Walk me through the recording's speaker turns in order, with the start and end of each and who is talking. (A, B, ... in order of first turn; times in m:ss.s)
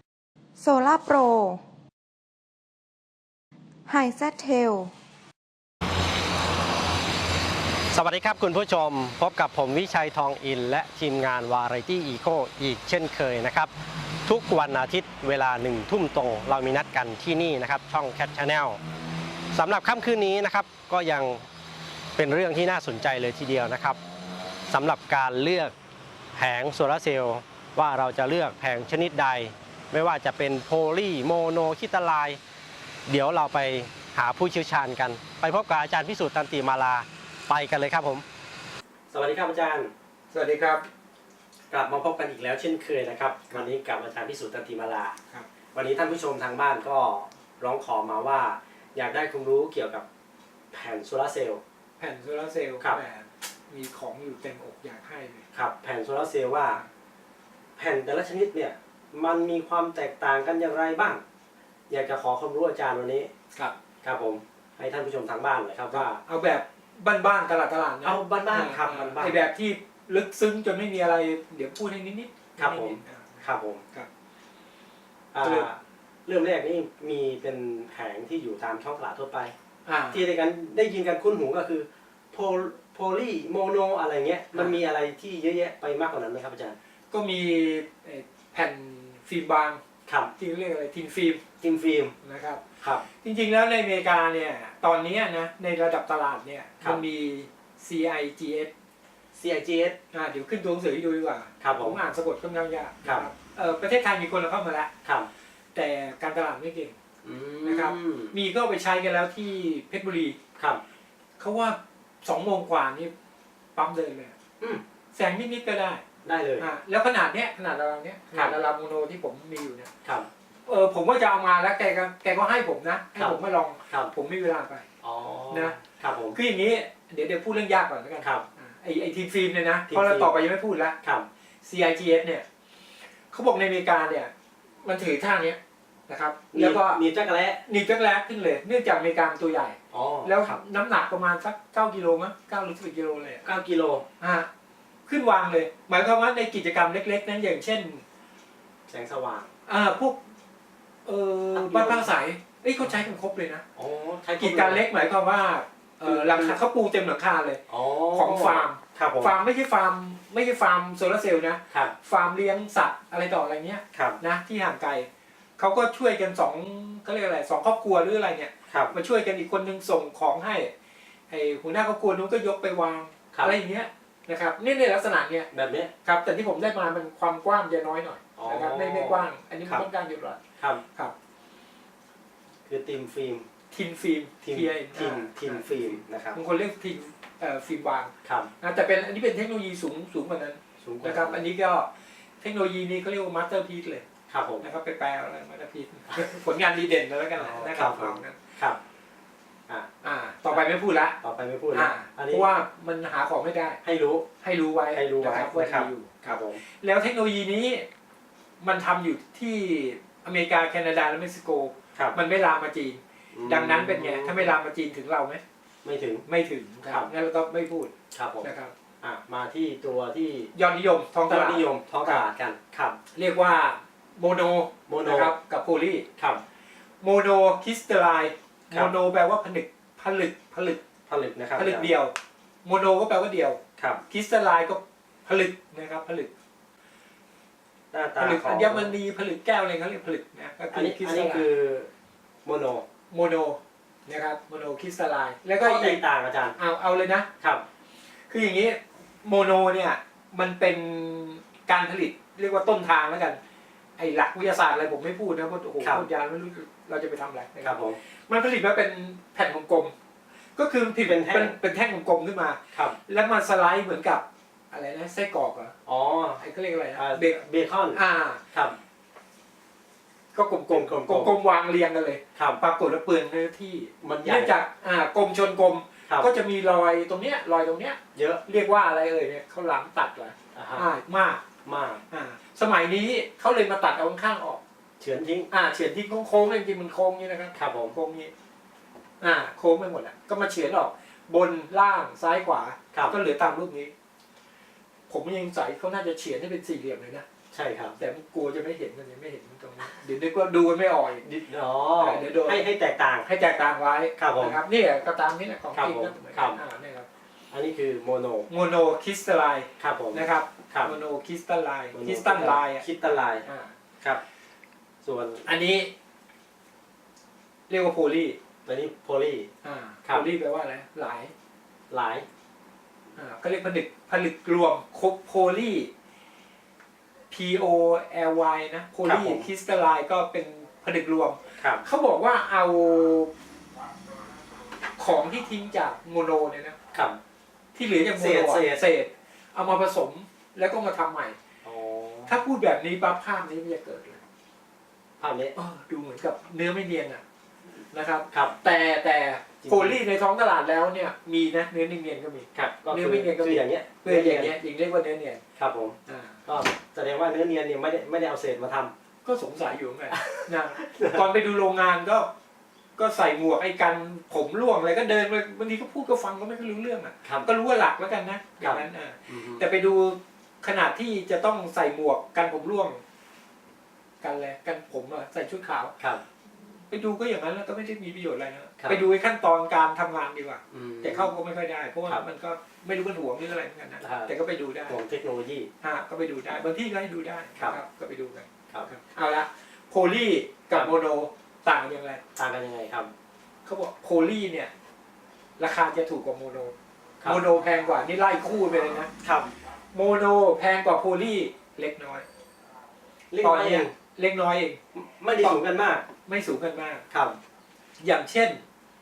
0:00.6-0:01.6 A
0:03.9-0:04.9 A
0:07.9-0:13.7 B
0:14.2-0:18.8 B
0:19.5-0:21.4 B
0:22.2-0:24.0 B
0:24.7-0:25.7 B
0:26.3-0:32.4 B
0:33.1-0:38.2 B
0:39.1-0:39.9 B
0:40.3-0:40.8 C
0:41.7-0:45.2 B
0:45.7-0:50.0 B
0:50.7-0:51.6 B
0:52.0-0:55.4 C
0:55.5-0:56.8 B
0:57.8-1:01.2 B
1:01.9-1:03.3 B
1:04.0-1:06.2 B
1:05.9-1:14.1 C
1:08.0-1:09.4 B
1:12.6-1:13.8 B
1:15.3-1:19.5 B
1:15.4-1:15.7 C
1:19.8-1:20.2 C
1:20.1-1:26.8 B
1:27.1-1:29.8 C
1:30.1-1:30.3 B
1:30.4-1:31.4 C
1:31.6-1:32.1 B
1:32.2-1:38.7 C
1:39.3-1:40.0 B
1:40.1-1:44.9 C
1:41.6-1:42.0 B
1:45.7-1:47.0 C
1:47.2-1:48.3 B
1:47.6-1:50.4 C
1:50.6-1:50.8 B
1:51.4-1:53.1 C
1:53.8-1:54.3 C
1:55.1-1:56.0 C
1:56.2-1:56.7 B
1:56.6-1:59.9 C
2:00.7-2:04.8 C
2:03.2-2:04.1 B
2:05.0-2:06.4 B
2:05.5-2:05.8 C
2:06.3-2:11.0 C
2:09.9-2:10.4 B
2:11.0-2:11.3 B
2:11.6-2:12.4 C
2:13.3-2:14.3 C
2:14.8-2:17.0 C
2:16.5-2:17.6 B
2:17.6-2:23.4 C
2:19.9-2:20.6 B
2:23.4-2:24.0 B
2:24.2-2:24.5 C
2:25.1-2:28.0 C
2:28.9-2:29.5 B
2:29.7-2:30.2 C
2:31.0-2:33.6 C
2:31.5-2:32.1 B
2:33.8-2:34.9 B
2:34.4-2:37.6 C
2:36.0-2:36.6 B
2:37.7-2:39.4 B
2:38.1-2:45.1 C
2:43.9-2:44.2 B
2:45.6-2:50.7 C
2:48.7-2:48.9 B
2:51.3-2:55.5 C
2:55.5-2:55.9 B
2:56.0-3:00.4 C
2:58.4-2:59.9 B
3:02.7-3:03.5 B
3:03.7-3:11.9 C
3:04.4-3:06.4 B
3:08.2-3:08.5 B
3:10.8-3:11.4 B
3:12.4-3:14.0 C
3:14.3-3:14.6 B
3:14.6-3:18.4 C
3:17.4-3:18.8 B
3:20.0-3:21.2 C
3:21.2-3:22.5 B
3:21.7-3:23.8 C
3:23.8-3:24.3 B
3:24.4-3:27.9 C
3:24.9-3:26.6 B
3:28.6-3:35.4 C
3:33.3-3:34.5 B
3:35.8-3:36.2 B
3:36.3-3:38.7 C
3:38.1-3:38.5 B
3:39.0-3:40.5 B
3:40.5-3:42.2 C
3:41.3-3:43.0 B
3:43.1-3:46.1 C
3:44.9-3:45.3 B
3:46.2-3:46.4 B
3:47.0-3:50.8 C
3:51.1-3:51.9 B
3:51.6-3:56.3 C
3:57.9-3:58.9 B
3:58.2-4:01.5 C
4:00.7-4:01.9 B
4:02.4-4:02.8 B
4:03.1-4:06.0 C
4:05.6-4:06.6 B
4:06.6-4:07.3 C
4:07.4-4:07.6 B
4:08.3-4:13.4 C
4:14.0-4:19.9 C
4:15.8-4:16.0 B
4:17.6-4:18.0 B
4:20.6-4:25.7 C
4:21.0-4:21.5 B
4:22.7-4:23.0 B
4:25.8-4:26.4 B
4:26.4-4:27.4 C
4:26.9-4:28.0 B
4:27.9-4:28.4 C
4:28.5-4:28.8 B
4:30.3-4:41.4 C
4:30.7-4:31.3 B
4:32.3-4:32.6 B
4:34.0-4:34.6 B
4:38.1-4:38.4 B
4:40.5-4:40.9 B
4:41.6-4:42.0 B
4:42.1-4:44.6 C
4:45.0-4:45.5 B
4:45.5-4:48.3 C
4:47.5-4:48.0 B
4:49.2-4:53.9 C
4:55.1-4:57.2 C
4:57.5-4:58.0 B
4:58.0-5:01.2 C
5:01.2-5:03.3 B
5:02.0-5:02.6 C
5:03.2-5:07.0 C
5:04.2-5:04.6 B
5:05.7-5:06.6 B
5:07.5-5:08.5 B
5:08.5-5:13.7 C
5:09.8-5:11.0 B
5:11.9-5:13.4 B
5:15.0-5:15.5 B
5:15.4-5:15.9 C
5:17.7-5:18.4 C
5:18.6-5:19.5 B
5:19.6-5:21.3 C
5:21.9-5:22.2 B
5:23.2-5:25.9 C
5:27.3-5:33.3 C
5:29.0-5:29.5 B
5:31.6-5:31.8 B
5:35.0-5:36.8 C
5:36.9-5:37.2 B
5:37.7-5:41.4 C
5:38.1-5:38.8 B
5:41.6-5:42.4 B
5:42.3-5:44.2 C
5:45.2-5:45.5 B
5:45.5-5:47.2 C
5:47.9-5:55.4 C
5:48.3-5:48.6 B
5:49.6-5:50.0 B
5:52.5-5:54.5 B
5:55.6-5:58.9 B
5:56.1-5:56.4 C
5:59.2-6:02.3 C
6:00.1-6:01.3 B
6:03.0-6:13.0 C
6:08.6-6:09.6 B
6:14.2-6:15.9 C
6:16.9-6:25.0 C
6:20.7-6:21.3 B
6:24.0-6:24.3 B
6:24.9-6:25.7 B
6:25.8-6:32.2 C
6:32.4-6:33.1 B
6:33.6-6:34.7 C
6:35.6-6:36.7 C
6:37.2-6:39.1 C
6:39.2-6:39.5 B
6:39.9-6:42.2 C
6:43.3-6:43.9 B
6:43.4-6:44.8 C
6:44.9-6:46.0 B
6:46.2-6:47.0 C
6:47.1-6:47.4 B
6:48.0-6:48.6 C